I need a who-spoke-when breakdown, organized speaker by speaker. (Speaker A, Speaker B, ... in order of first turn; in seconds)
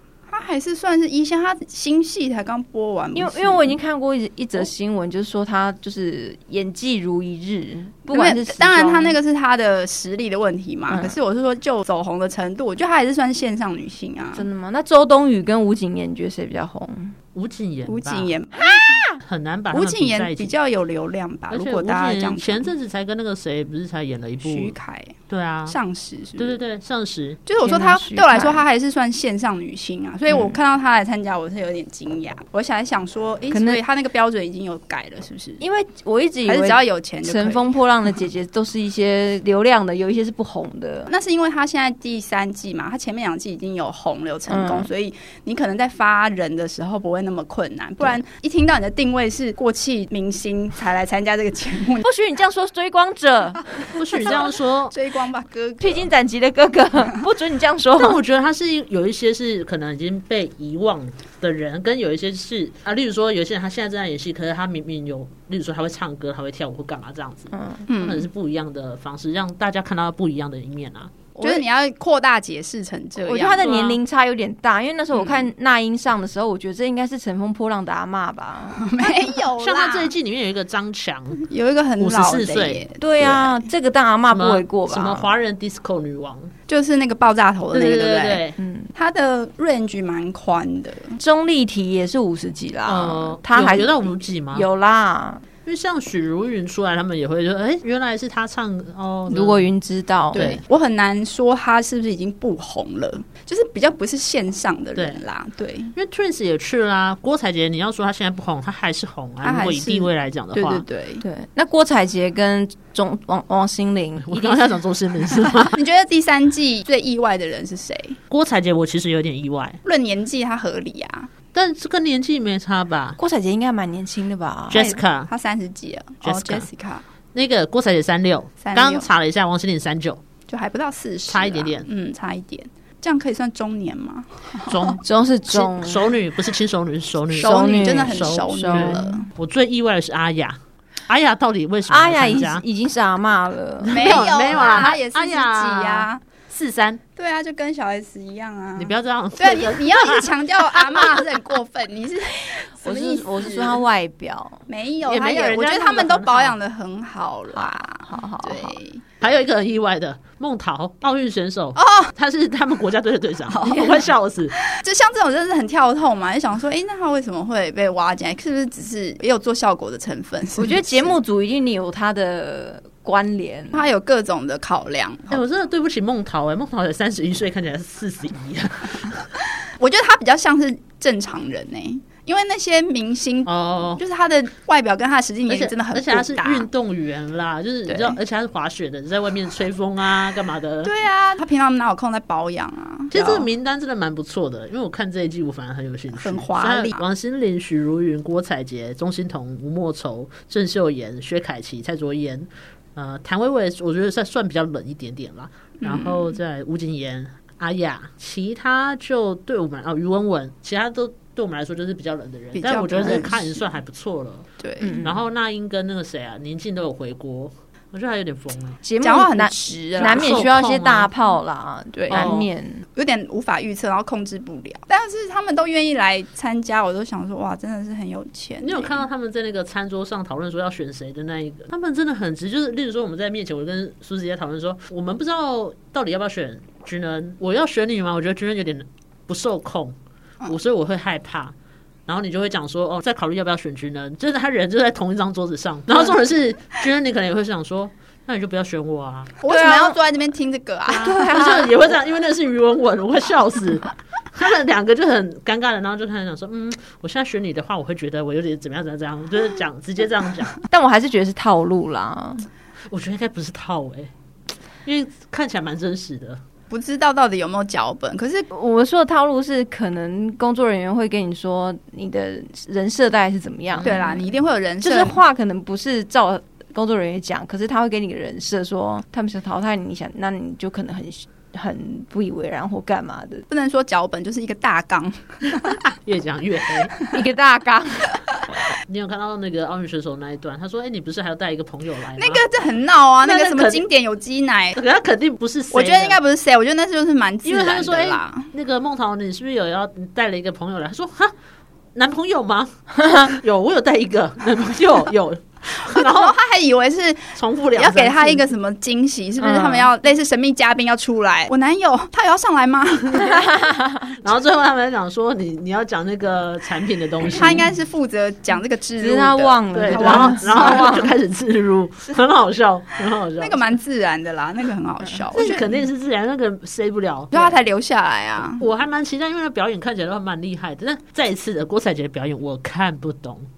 Speaker A: 0.3-3.8, 8.1-14.5, 17.9-18.9, 19.7-22.7, 24.4-26.6, 27.5-35.6, 36.5-37.7, 41.1-52.0, 54.2-56.1, 67.9-68.3, 71.3-73.7, 75.1-75.5, 78.8-80.2, 81.4-83.7, 86.7-91.2, 100.3-105.9, 109.4-111.2, 115.7-118.2, 119.8-121.3, 124.8-127.0, 128.6-129.1, 130.5-135.0, 137.3-139.3, 143.9-146.2, 147.2-153.8, 154.7-159.0, 161.8-162.2, 163.5-164.1, 164.7-171.2, 173.7-175.4, 179.8-186.7, 187.9-188.2, 190.8-193.5, 196.1-197.0, 205.8-206.3, 212.5-213.6, 214.6-215.0, 219.0-220.5, 221.9-222.4, 223.0-229.1, 249.4-251.2, 266.7-268.5, 273.8-275.2, 283.5-285.8, 292.1-294.8, 295.7-298.5, 305.9-313.4, 317.2-321.1, 323.4-325.8, 327.3-328.6
Speaker B: 3.1-9.2, 10.9-11.2, 14.3-17.1, 18.6-19.2, 27.6-28.6, 33.5-33.8, 35.6-41.1, 44.5-44.9, 52.0-54.0, 55.8-58.2, 67.5-67.9, 73.2-79.3, 83.0-85.3, 88.6-88.9, 91.2-95.4, 99.3-100.6, 111.2-114.8, 115.3-115.6, 123.2-125.0, 135.0-136.1, 137.4-139.3, 141.9-144.3, 152.8-154.6, 157.5-158.8, 170.6-173.9, 214.8-215.2, 218.8-222.8, 249.5-250.0, 250.9-251.9, 260.7-262.5, 268.5-274.3, 274.8-283.4, 287.1-288.2, 309.4-309.9, 313.2-314.2, 319.0-321.1
Speaker C: 17.4-18.3, 19.2-20.5, 21.5-24.7, 25.3-25.8, 26.4-27.4, 53.9-55.0, 58.0-71.2, 73.6-74.0, 79.6-81.5, 82.0-82.8, 84.3-86.5, 87.7-88.6, 92.9-94.7, 95.7-99.7, 100.3-100.6, 105.0-105.2, 106.0-110.8, 114.2-115.8, 118.3-119.8, 121.5-123.2, 124.7-125.3, 126.2-126.7, 127.3-130.2, 131.3-131.9, 134.7-142.6, 143.8-147.0, 148.8-151.3, 155.1-156.6, 159.2-164.5, 175.3-179.2, 183.5-184.0, 185.5-190.9, 193.1-214.5, 215.0-218.8, 220.0-221.1, 222.1-222.5, 228.6-241.6, 242.1-249.3, 250.9-260.6, 262.9-264.1, 264.9-266.4, 273.7-274.3, 285.9-286.9, 288.9-292.4, 293.2-293.9, 294.8-296.2, 297.4-301.3, 301.9-306.4, 307.4-308.5, 313.1-313.5, 314.2-317.6, 319.7-323.7, 325.3-327.6, 328.6-333.5